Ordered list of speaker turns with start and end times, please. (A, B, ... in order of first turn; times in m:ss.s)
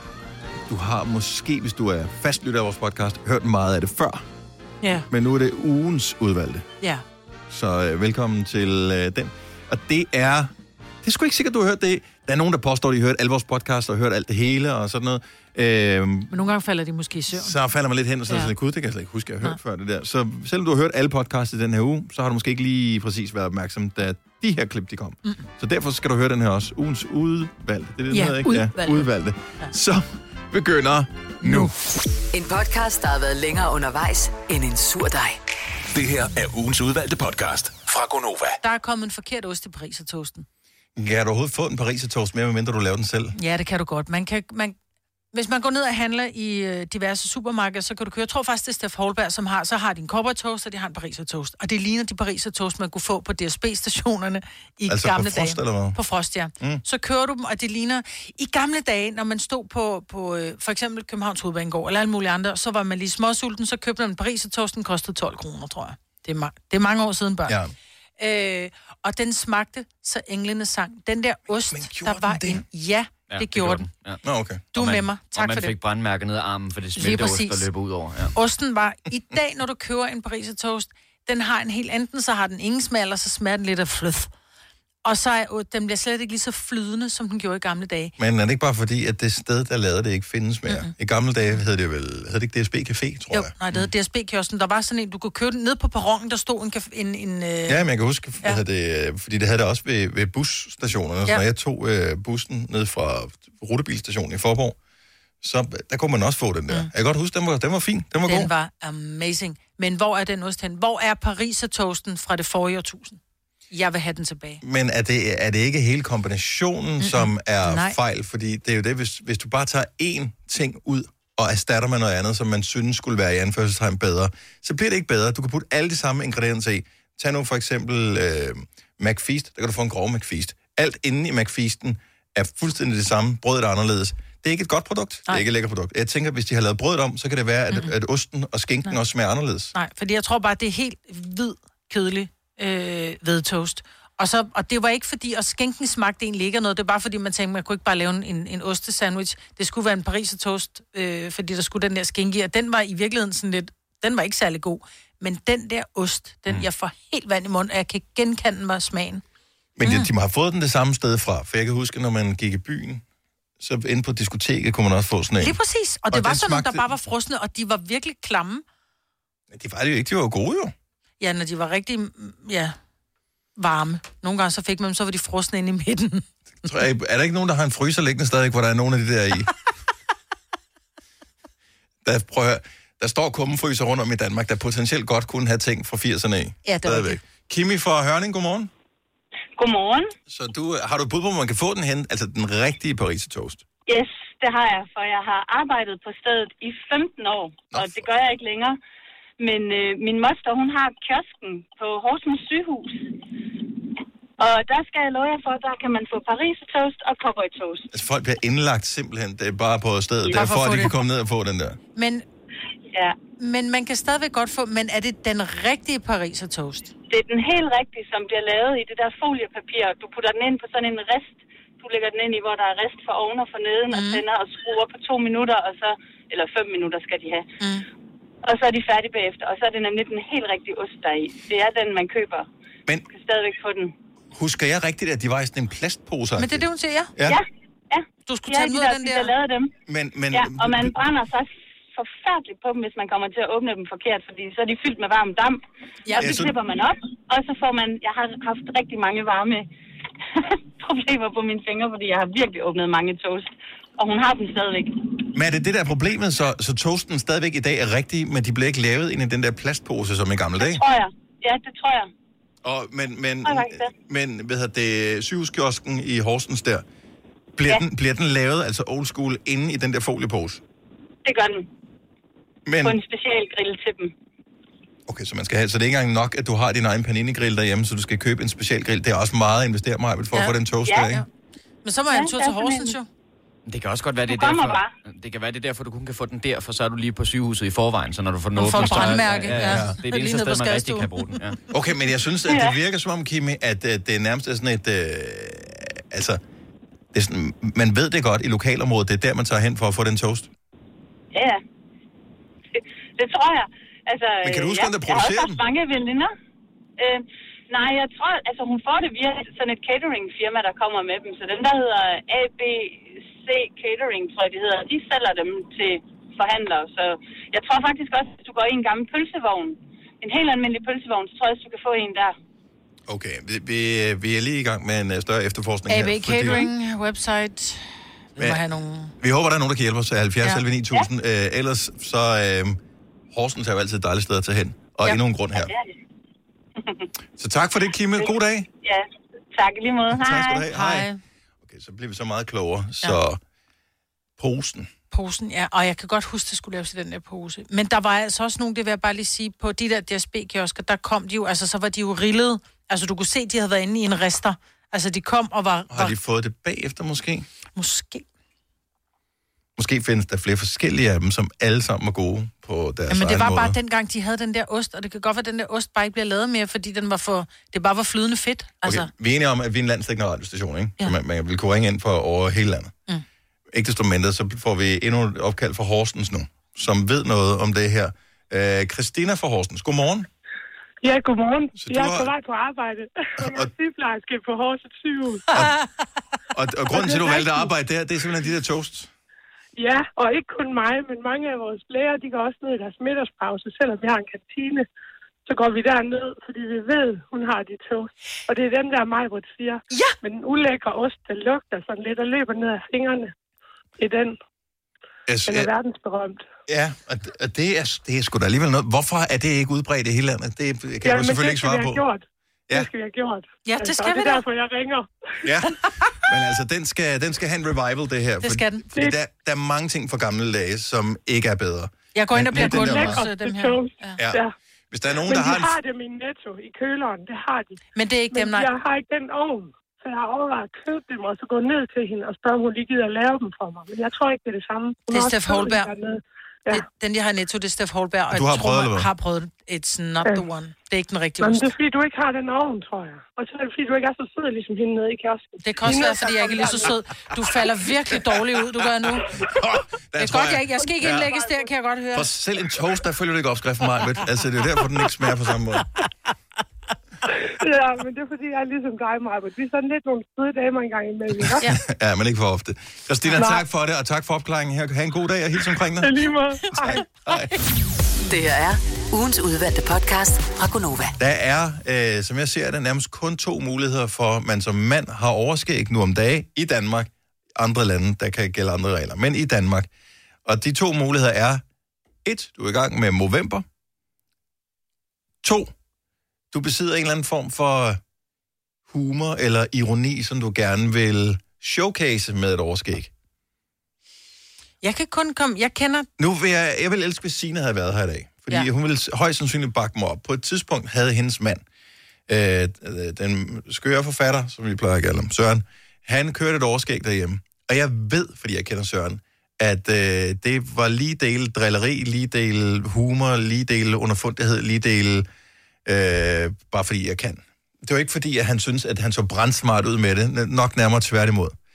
0:00.7-0:04.3 A
0:04.8-0:05.1 B
0:05.1-0:06.7 A
0:07.5-0:10.5 A
0:11.0-0:16.3 A
0:16.3-0:17.6 B
0:17.3-0:31.8 A
0:28.1-0:29.0 B
0:32.3-0:35.4 C
0:35.9-0:38.6 D
0:38.6-0:40.5 B
0:41.0-0:43.4 A
0:43.4-0:44.8 B
0:45.3-1:07.6 B
0:54.9-0:56.0 A
1:07.5-1:07.7 A
1:08.2-1:13.9 B
1:11.7-1:12.6 A
1:13.3-1:14.2 E
1:14.2-1:14.7 A
1:14.7-1:15.7 B
1:14.8-1:18.3 E
1:17.0-1:17.7 B
1:18.3-1:24.3 B
1:25.0-1:28.1 B
1:28.2-1:33.9 A
1:33.3-1:37.8 B
1:37.7-1:44.8 A
1:45.4-1:48.5 A
1:48.3-1:53.2 B
1:53.7-1:54.6 B
1:54.6-2:19.7 A
1:57.0-1:58.0 B
2:19.7-2:39.2 B
2:39.8-2:43.0 A
2:39.8-2:40.1 B
2:43.6-2:45.6 A
2:45.4-2:48.6 B
2:46.1-2:46.9 A
2:49.5-2:50.7 A
2:51.2-2:52.8 B
2:53.6-2:56.7 B
2:56.6-2:59.5 A
3:02.0-3:08.7 A
3:06.7-3:07.2 B
3:09.6-3:10.2 F
3:10.3-3:13.6 A
3:13.9-3:18.8 F
3:17.7-3:18.1 A
3:19.4-3:23.2 F
3:24.4-3:27.9 F
3:27.9-3:31.8 A
3:30.2-3:31.0 B
3:32.0-3:32.2 B
3:33.4-3:36.9 B
3:37.1-3:47.5 F
3:43.9-3:44.2 B
3:47.6-3:47.9 B
3:48.4-3:52.5 F
3:53.1-3:53.9 F
3:54.3-3:57.4 A
3:56.4-3:57.1 B
3:57.3-3:59.7 F
3:58.3-3:59.3 B
3:59.9-4:01.0 A
4:00.3-4:09.7 F
4:06.1-4:06.4 B
4:06.2-4:06.5 A
4:10.3-4:15.2 F
4:15.4-4:20.8 A
4:20.6-4:22.1 F
4:22.6-4:26.8 A
4:23.5-4:23.9 F
4:27.6-4:30.6 A
4:31.2-4:31.7 F
4:32.7-4:33.0 A
4:32.8-4:34.1 F
4:35.1-4:41.2 A
4:40.9-4:41.2 F
4:41.8-4:43.1 B
4:42.1-4:43.0 F
4:43.7-4:51.6 E
4:44.3-4:44.9 F
4:48.6-4:51.5 B
4:48.8-4:50.0 A
4:51.7-4:56.4 A
4:52.5-4:52.8 F
4:57.1-5:00.5 A
5:01.3-5:01.6 F
5:02.7-5:06.3 F
5:04.4-5:05.6 A
5:07.0-5:22.4 F
5:23.1-5:26.7 A
5:25.9-5:29.1 B
5:29.2-5:32.8 A
5:33.3-5:35.7 A
5:35.6-5:35.9 F
5:36.8-5:37.1 F
5:37.4-5:38.7 A
5:38.8-5:40.6 F
5:40.1-5:41.1 A
5:40.7-5:41.2 B
5:41.6-5:43.4 A
5:44.4-5:44.9 A
5:45.1-5:56.2 B
5:55.9-5:57.5 A
5:57.8-5:58.3 B
5:59.8-6:03.8 A
6:03.1-6:09.1 B
6:08.8-6:12.9 A
6:13.7-6:20.3 A
6:21.0-6:25.7 G
6:21.8-6:22.3 A
6:23.4-6:23.7 A
6:25.5-6:25.9 B
6:26.5-6:29.1 A
6:26.9-6:27.7 G
6:29.8-6:34.9 G
6:35.5-6:43.3 G
6:39.9-6:40.2 B
6:44.0-6:44.4 G
6:45.3-6:45.7 A
6:45.4-6:46.4 G
6:46.7-6:52.0 A
6:51.0-6:55.7 G
6:53.7-6:54.4 B
6:55.4-7:03.2 A
6:58.4-6:58.8 B
7:02.2-7:04.2 B
7:02.5-7:04.5 G
7:04.2-7:05.8 A
7:05.1-7:07.8 G
7:08.0-7:08.7 B
7:08.3-7:16.8 G
7:15.1-7:15.9 B
7:16.7-7:21.7 B
7:18.3-7:19.1 A
7:21.4-7:26.9 G
7:25.6-7:29.3 B
7:29.4-7:31.4 A
7:30.2-7:32.3 B
7:32.1-7:35.9 A
7:37.6-7:41.7 G
7:41.6-7:46.2 A
7:43.3-7:43.6 G
7:46.0-7:47.1 G
7:46.7-7:47.5 A
7:46.8-7:47.5 B
7:48.3-7:51.2 C
7:51.2-7:59.9 A
8:00.5-8:01.6 A
8:02.2-8:03.7 A
8:05.4-8:05.7 A
8:06.5-8:08.0 A
8:08.9-8:13.1 A
8:14.8-8:16.1 B
8:16.2-8:21.6 A
8:22.3-8:35.3 A
8:35.8-8:41.6 A